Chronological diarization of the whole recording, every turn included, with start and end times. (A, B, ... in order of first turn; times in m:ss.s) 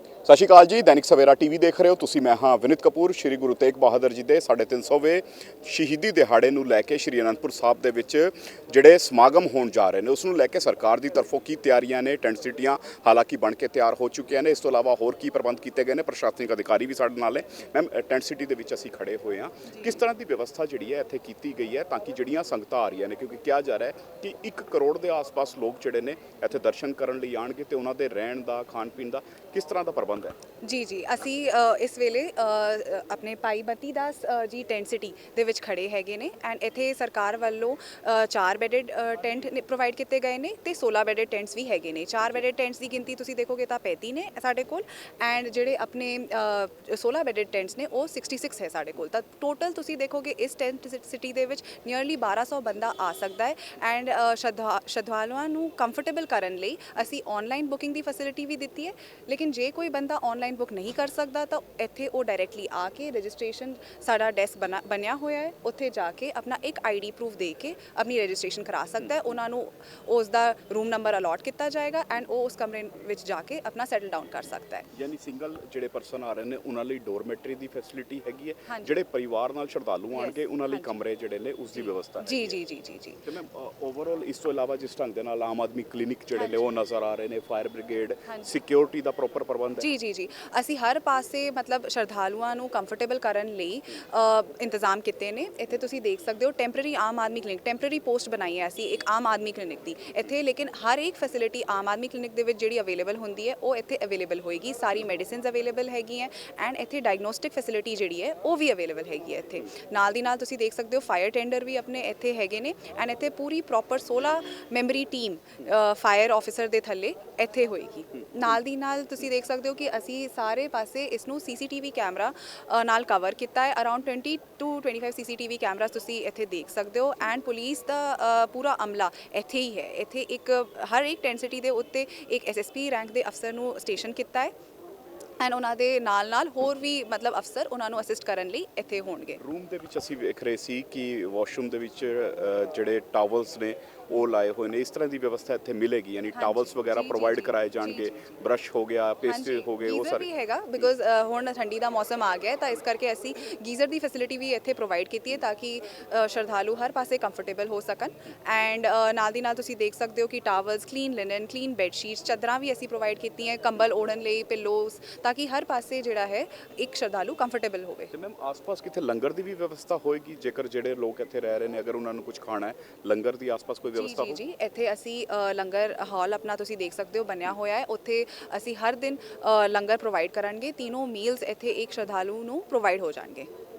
0:00.2-0:30.3 A
0:30.6-1:14.9 B
1:14.9-1:22.6 A
1:18.7-1:18.9 B
1:20.1-1:20.9 B
1:21.8-1:23.2 B
1:23.2-1:29.9 A
1:26.4-1:26.8 B
1:29.8-2:14.5 B
2:15.4-2:19.4 B
2:19.4-2:30.3 A
2:26.3-2:28.3 B
2:29.3-2:48.1 B
2:48.1-2:54.4 A
2:53.9-3:03.5 B